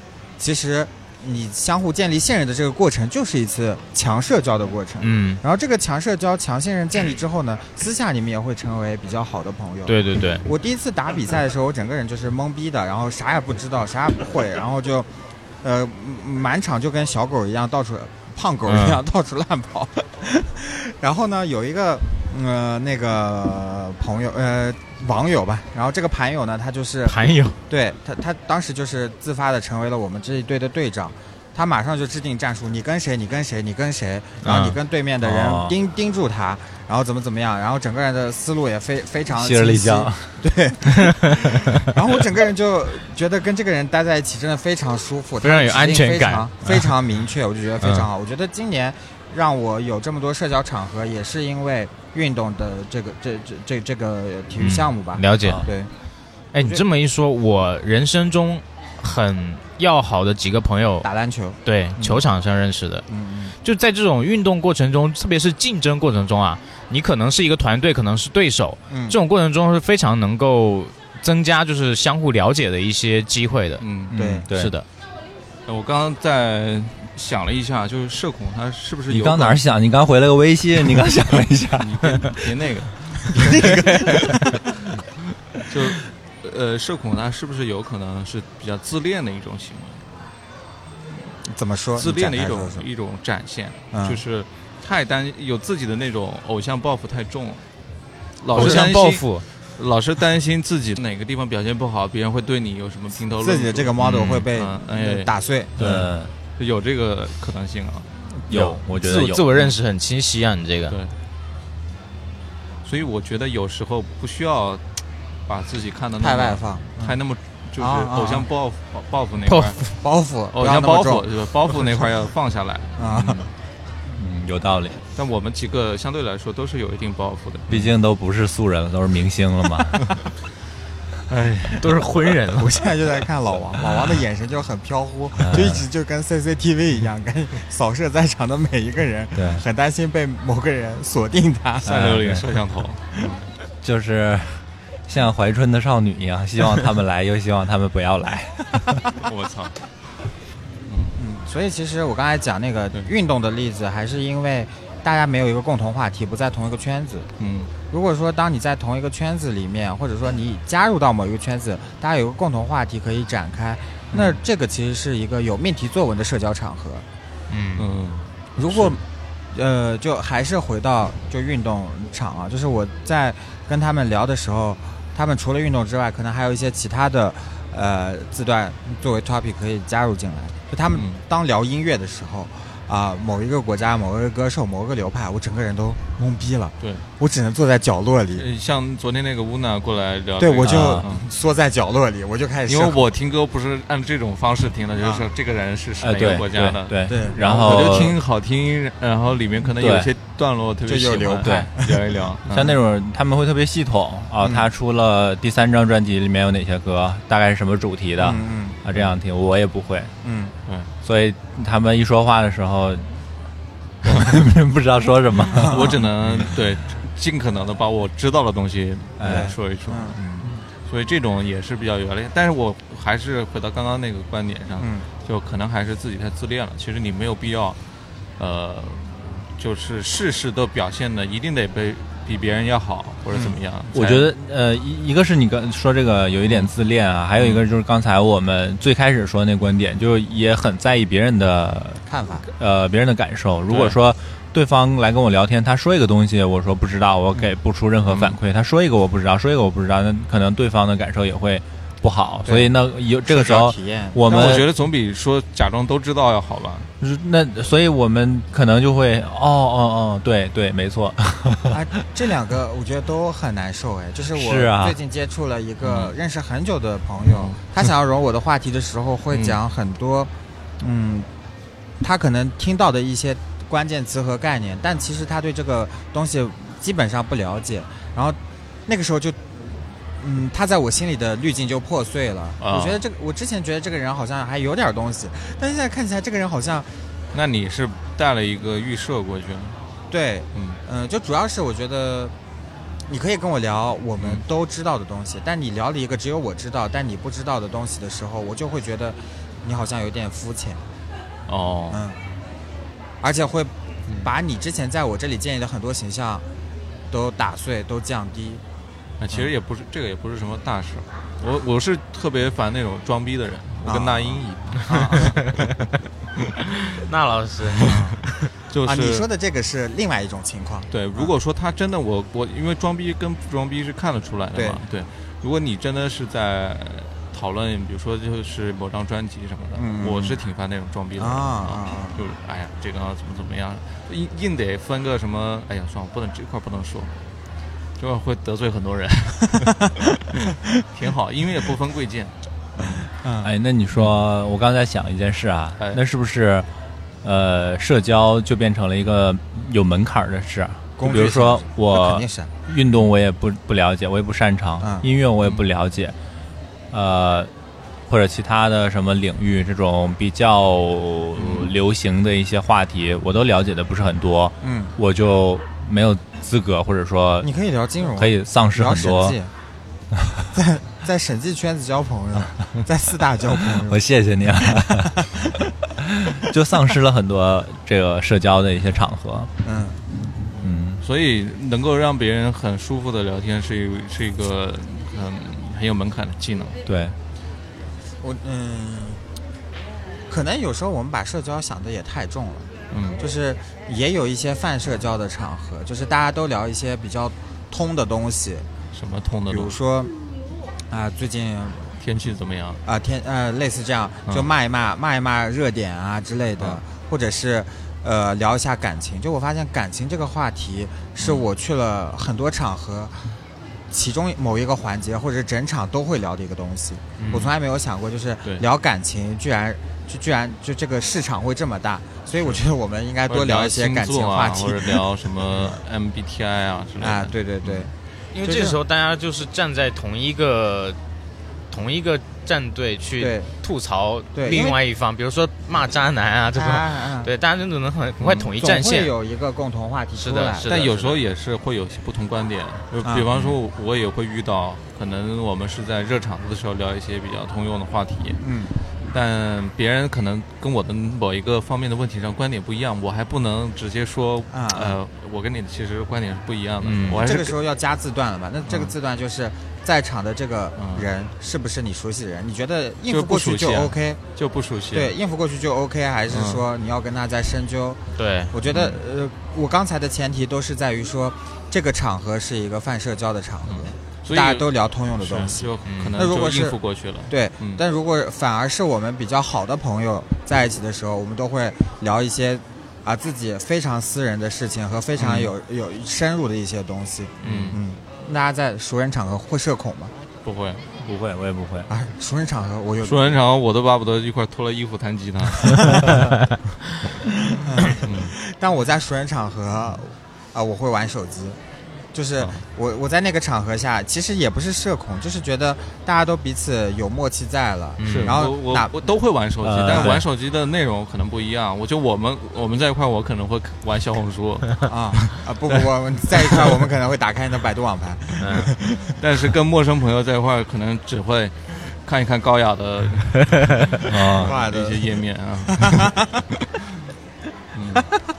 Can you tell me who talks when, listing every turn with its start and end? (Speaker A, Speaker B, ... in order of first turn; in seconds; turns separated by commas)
Speaker A: 0.4-15.1, Speaker B: 5.0-5.4, Speaker B: 9.9-10.4, Speaker A: 15.6-55.9, Speaker B: 18.6-19.0, Speaker B: 27.1-27.6, Speaker B: 34.4-34.8, Speaker C: 35.2-35.7, Speaker C: 39.3-40.4, Speaker B: 45.4-46.9, Speaker B: 47.8-48.1, Speaker B: 54.6-55.7, Speaker B: 56.5-61.1, Speaker A: 56.6-56.8, Speaker A: 61.0-62.2, Speaker B: 61.6-63.0, Speaker A: 63.1-63.5, Speaker B: 63.6-73.8, Speaker A: 68.9-69.2, Speaker D: 73.8-74.2, Speaker C: 74.1-74.7, Speaker A: 74.1-74.5, Speaker B: 74.5-74.8, Speaker D: 75.7-79.6, Speaker C: 79.1-82.4, Speaker D: 81.8-83.7, Speaker A: 83.4-84.5, Speaker C: 83.5-84.4, Speaker D: 84.9-90.0, Speaker A: 91.5-92.8, Speaker D: 92.0-97.6, Speaker A: 93.9-94.2, Speaker D: 98.4-99.2, Speaker B: 98.5-99.4, Speaker A: 98.6-98.8, Speaker D: 99.8-108.1, Speaker A: 103.4-105.8, Speaker C: 105.8-106.3, Speaker C: 108.3-109.5, Speaker B: 108.5-111.0, Speaker D: 110.9-111.1, Speaker D: 112.8-114.8, Speaker D: 115.5-119.8, Speaker A: 116.2-117.2, Speaker A: 117.8-118.5, Speaker B: 119.5-119.8, Speaker A: 120.0-121.2, Speaker D: 120.5-123.5, Speaker A: 123.0-123.5, Speaker C: 124.2-125.0, Speaker D: 125.1-127.9, Speaker C: 127.7-130.1, Speaker D: 131.3-132.0, Speaker B: 131.8-132.7, Speaker A: 132.6-142.0, Speaker C: 135.4-135.8, Speaker C: 139.3-139.6, Speaker C: 141.8-142.6, Speaker D: 141.8-143.4, Speaker C: 143.8-149.0, Speaker D: 149.2-149.7, Speaker D: 150.9-151.2, Speaker A: 151.2-157.3, Speaker D: 157.4-157.7, Speaker A: 157.9-167.0, Speaker D: 164.1-164.4, Speaker B: 167.5-167.9, Speaker D: 167.8-168.9, Speaker A: 168.6-188.4, Speaker D: 180.9-181.2, Speaker D: 188.3-191.3, Speaker A: 190.4-193.1, Speaker C: 190.6-191.1, Speaker D: 192.7-202.8, Speaker A: 195.0-195.3, Speaker C: 196.0-198.2, Speaker A: 197.1-197.7, Speaker C: 199.8-200.1, Speaker A: 200.8-202.1, Speaker C: 201.4-201.7, Speaker C: 202.5-210.1, Speaker A: 204.4-204.7, Speaker A: 208.2-208.8, Speaker A: 210.2-210.5, Speaker C: 211.0-213.1, Speaker C: 214.0-216.5, Speaker A: 215.5-216.0, Speaker D: 215.6-227.8, Speaker C: 219.2-219.5, Speaker A: 219.2-220.5, Speaker A: 224.8-225.1, Speaker D: 228.4-234.3, Speaker A: 233.3-233.6, Speaker C: 233.9-254.7, Speaker D: 237.4-237.6, Speaker A: 242.1-242.4, Speaker D: 243.7-244.0, Speaker D: 248.1-248.4, Speaker A: 252.4-254.6, Speaker D: 254.3-256.9, Speaker C: 257.0-261.8, Speaker A: 261.7-271.3, Speaker C: 264.3-265.0, Speaker D: 265.8-266.1, Speaker D: 267.2-267.6, Speaker D: 269.3-269.6, Speaker A: 272.0-279.4, Speaker A: 280.2-286.9, Speaker D: 282.6-283.0, Speaker D: 287.3-289.8, Speaker A: 290.1-292.3, Speaker D: 290.5-290.8, Speaker A: 293.1-300.8, Speaker D: 294.2-294.4, Speaker D: 301.5-302.0, Speaker A: 301.9-302.2, Speaker A: 303.2-306.4, Speaker D: 304.1-304.3, Speaker A: 307.1-308.6, Speaker D: 309.2-315.6, Speaker A: 313.8-315.4, Speaker B: 315.2-315.7, Speaker B: 316.9-317.9, Speaker D: 317.8-318.0, Speaker A: 317.8-318.2, Speaker D: 318.7-319.2, Speaker A: 318.8-321.3, Speaker D: 320.9-337.1, Speaker A: 324.5-324.8, Speaker A: 329.7-330.4, Speaker A: 331.2-332.2, Speaker D: 338.0-342.3, Speaker A: 342.8-343.5, Speaker C: 343.4-346.7, Speaker C: 347.2-356.1, Speaker A: 351.0-352.5, Speaker C: 356.9-357.5, Speaker C: 358.1-367.5, Speaker D: 361.4-361.7, Speaker A: 364.6-364.9, Speaker A: 367.4-369.5, Speaker C: 368.1-369.4, Speaker A: 370.5-374.0, Speaker C: 373.6-379.5, Speaker A: 374.8-375.5, Speaker A: 379.6-380.7, Speaker C: 380.6-381.0, Speaker D: 381.0-386.8, Speaker C: 386.9-387.1, Speaker A: 388.2-389.2, Speaker A: 390.3-398.6, Speaker D: 392.9-393.2, Speaker D: 398.9-399.8, Speaker A: 399.5-400.1, Speaker A: 400.9-401.9, Speaker D: 402.0-402.8, Speaker A: 402.9-413.2, Speaker D: 411.2-411.5, Speaker A: 413.9-425.8, Speaker D: 417.2-417.5, Speaker D: 423.3-427.9, Speaker A: 427.0-427.9, Speaker B: 428.3-431.0, Speaker A: 428.4-428.8, Speaker B: 431.7-439.1, Speaker A: 433.2-433.5, Speaker A: 434.3-434.8, Speaker A: 436.5-437.3, Speaker D: 438.2-438.5, Speaker A: 438.6-440.9, Speaker B: 440.2-441.2, Speaker D: 440.6-448.4, Speaker A: 443.0-443.6, Speaker A: 448.4-448.8, Speaker D: 449.1-457.6, Speaker A: 454.5-455.0, Speaker B: 456.8-457.2, Speaker A: 457.2-464.2, Speaker D: 458.6-458.9, Speaker D: 460.8-461.1, Speaker D: 463.1-465.1, Speaker A: 464.9-468.0, Speaker D: 466.3-466.6, Speaker B: 468.1-468.5, Speaker A: 468.5-476.8, Speaker D: 468.6-469.0, Speaker D: 473.6-477.8, Speaker B: 475.9-476.2, Speaker A: 477.3-490.1, Speaker D: 485.2-485.5, Speaker B: 487.4-487.7, Speaker D: 487.4-487.8, Speaker D: 490.4-490.9, Speaker C: 491.0-491.9, Speaker A: 491.9-493.4, Speaker D: 493.0-496.3, Speaker B: 496.3-496.5, Speaker A: 497.5-501.6, Speaker D: 497.9-498.3, Speaker A: 502.1-508.9, Speaker B: 508.0-508.4, Speaker D: 508.1-515.8, Speaker C: 509.6-510.2, Speaker A: 514.8-519.1, Speaker D: 516.4-516.6, Speaker B: 518.4-518.7, Speaker D: 519.2-526.1, Speaker C: 524.1-524.5, Speaker A: 524.4-525.1, Speaker A: 525.7-526.4, Speaker D: 527.7-528.1